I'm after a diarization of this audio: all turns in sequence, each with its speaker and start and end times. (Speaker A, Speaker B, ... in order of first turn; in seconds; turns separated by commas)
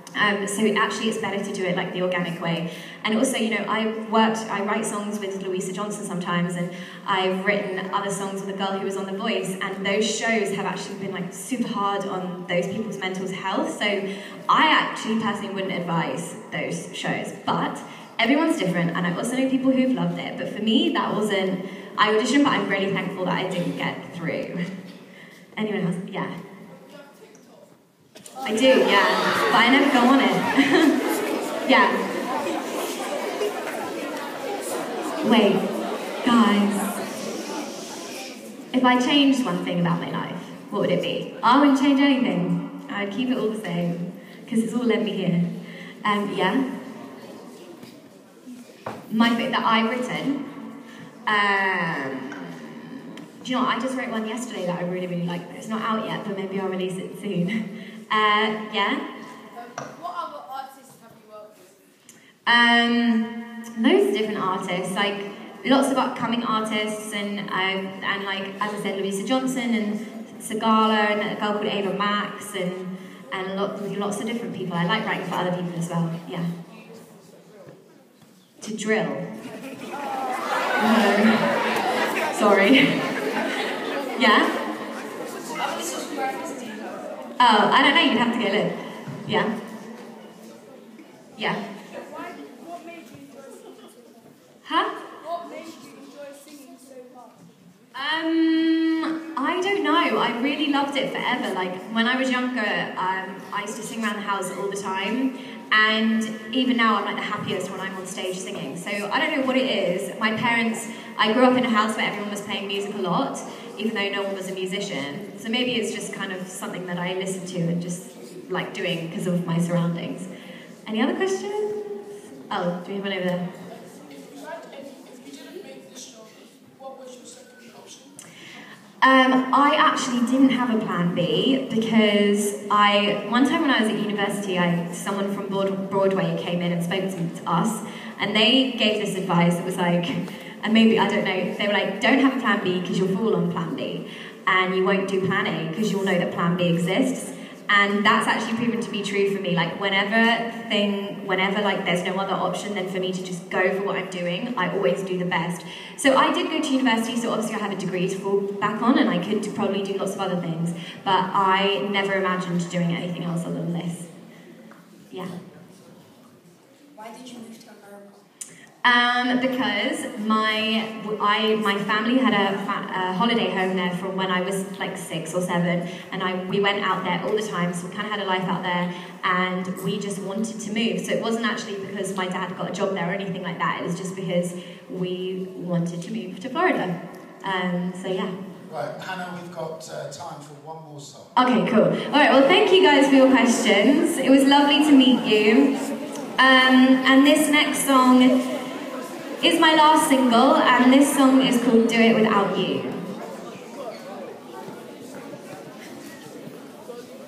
Speaker A: 0.2-24.7, Speaker A: 25.6-26.3, Speaker A: 28.4-31.0, Speaker A: 31.6-32.0, Speaker A: 35.2-35.6, Speaker A: 36.2-37.0, Speaker A: 38.7-45.5, Speaker A: 46.0-46.6, Speaker A: 49.1-50.4, Speaker A: 51.3-57.6, Speaker A: 58.1-59.0, Speaker B: 59.5-61.8, Speaker A: 62.5-76.5, Speaker A: 78.6-79.3, Speaker A: 80.8-81.5, Speaker A: 82.3-83.0, Speaker A: 84.2-84.5, Speaker B: 85.5-87.0, Speaker A: 87.4-88.7, Speaker A: 89.2-89.5, Speaker A: 91.4-91.6, Speaker B: 92.0-93.7, Speaker A: 94.6-94.9, Speaker B: 95.2-97.3, Speaker A: 97.9-120.3, Speaker A: 120.8-123.5, Speaker B: 124.0-128.1, Speaker A: 129.0-164.1, Speaker B: 166.9-168.2, Speaker A: 168.8-188.3, Speaker C: 188.7-191.3, Speaker A: 191.3-195.7, Speaker A: 196.4-198.3, Speaker A: 199.4-203.0